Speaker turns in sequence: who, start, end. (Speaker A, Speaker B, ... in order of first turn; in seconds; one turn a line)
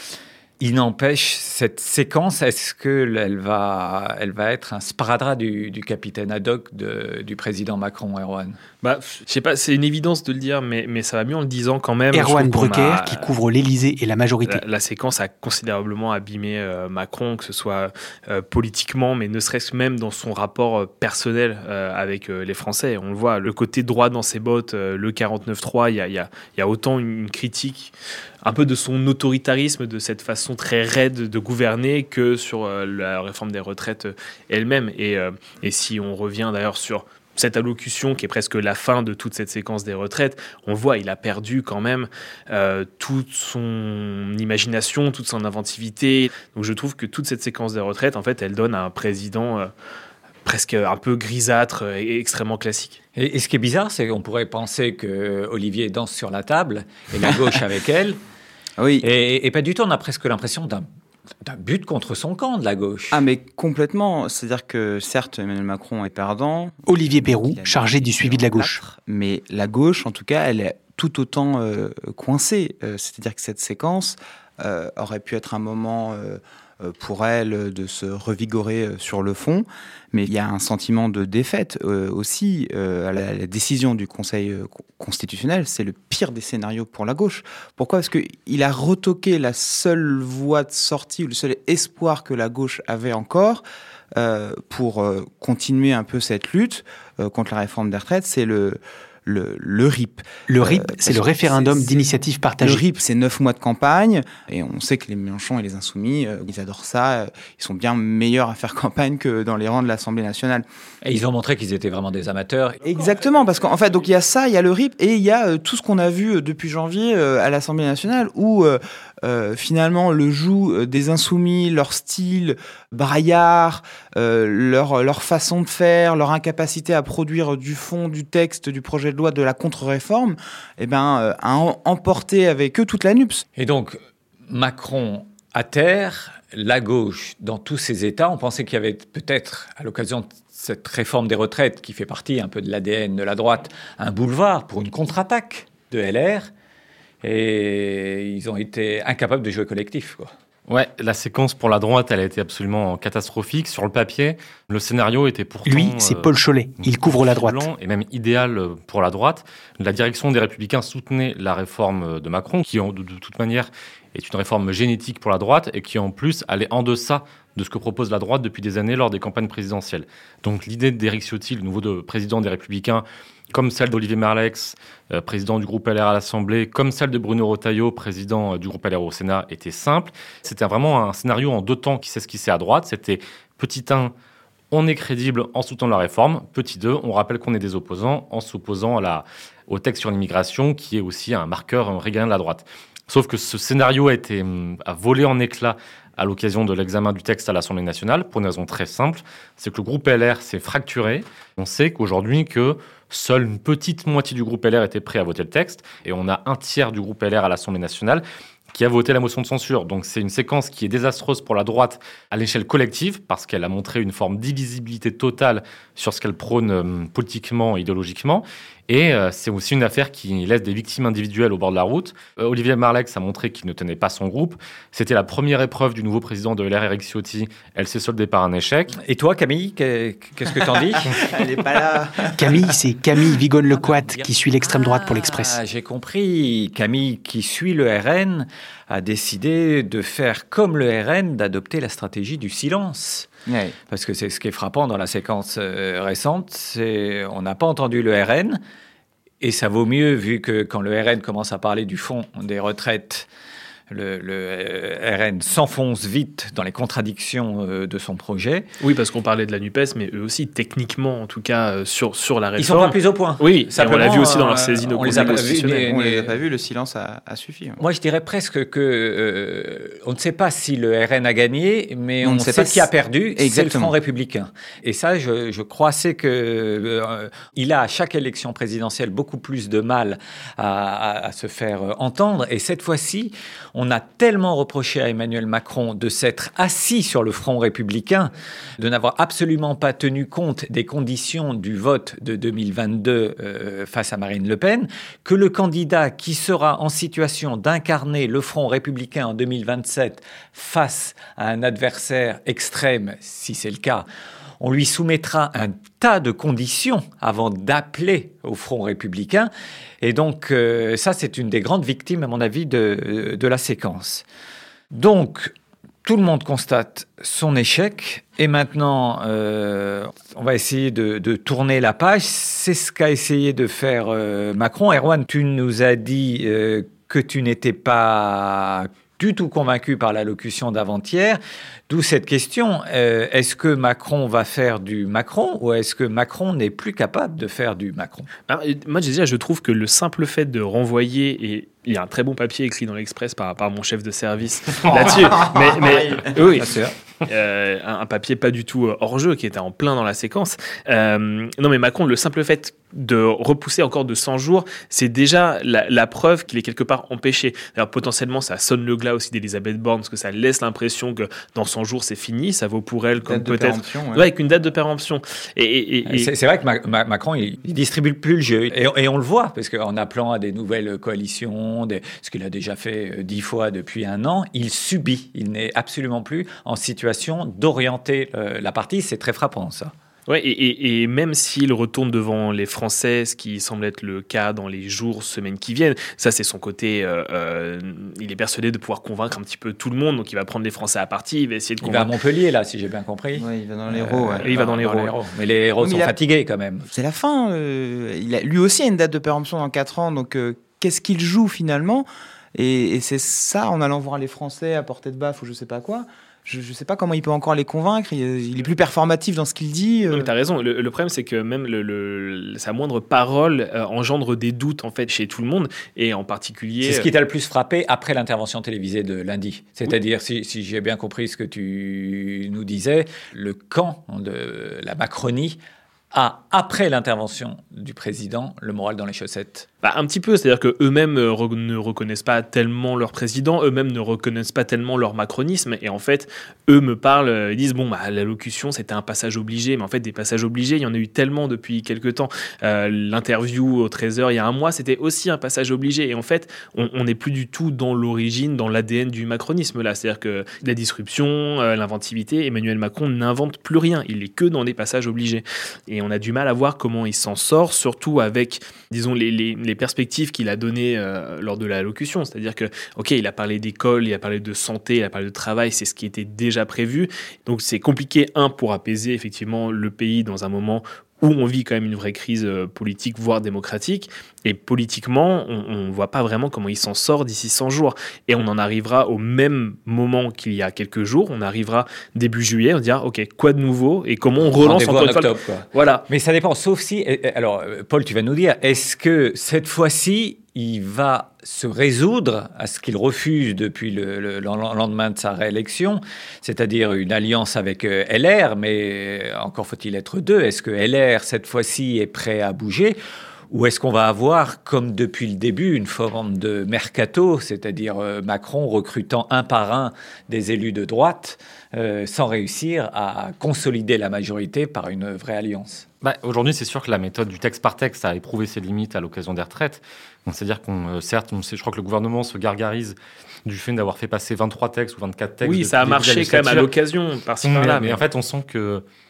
Speaker A: 0.6-8.6
Speaker B: 8.8-13.3
Speaker C: 12.1-14.6
Speaker B: 14.4-49.7
Speaker B: 50.4-53.0
Speaker A: 53.1-58.2
Speaker D: 58.8-59.0
Speaker A: 59.0-60.9
Speaker A: 61.4-63.2
Speaker D: 63.1-93.6
Speaker C: 66.9-68.8
Speaker D: 94.2-110.6
Speaker C: 100.5-102.8
Speaker A: 111.0-113.0
Speaker D: 112.8-133.4
Speaker A: 133.6-146.5
Speaker A: 147.2-150.3
Speaker E: 150.7-184.1
Speaker C: 155.7-157.6
Speaker E: 184.7-228.9
Speaker A: 228.9-231.2
Speaker D: 231.1-232.7
Speaker C: 232.4-235.6
Speaker A: 233.7-243.3
Speaker D: 243.5-243.8
Speaker A: 243.9-248.6
Speaker A: 249.4-253.3
Speaker A: 253.9-258.7
Speaker B: 258.8-265.8
Speaker A: 262.6-266.3
Speaker D: 265.1-267.8
Speaker A: 267.8-304.1
Speaker D: 272.2-273.9
Speaker A: 304.6-314.2
Speaker A: 314.9-338.3
Speaker B: 338.5-346.7
Speaker D: 344.9-346.3
Speaker A: 346.5-346.9
Speaker B: 347.2-366.3
Speaker D: 363.2-364.3
Speaker A: 366.1-379.9
Speaker B: 380.3-392.1
Speaker A: 391.8-396.9
Speaker D: 393.3-394.6
Speaker B: 394.4-395.1
Speaker D: 395.8-396.1
Speaker D: 396.9-410.3
Speaker B: 410.1-417.1
Speaker A: 416.8-429.7
Speaker B: 429.8-486.0
Speaker A: 484.4-503.0
Speaker A: 503.5-515.9
Speaker E: 516.0-526.7
Speaker B: 525.4-528.0
Speaker E: 527.4-528.8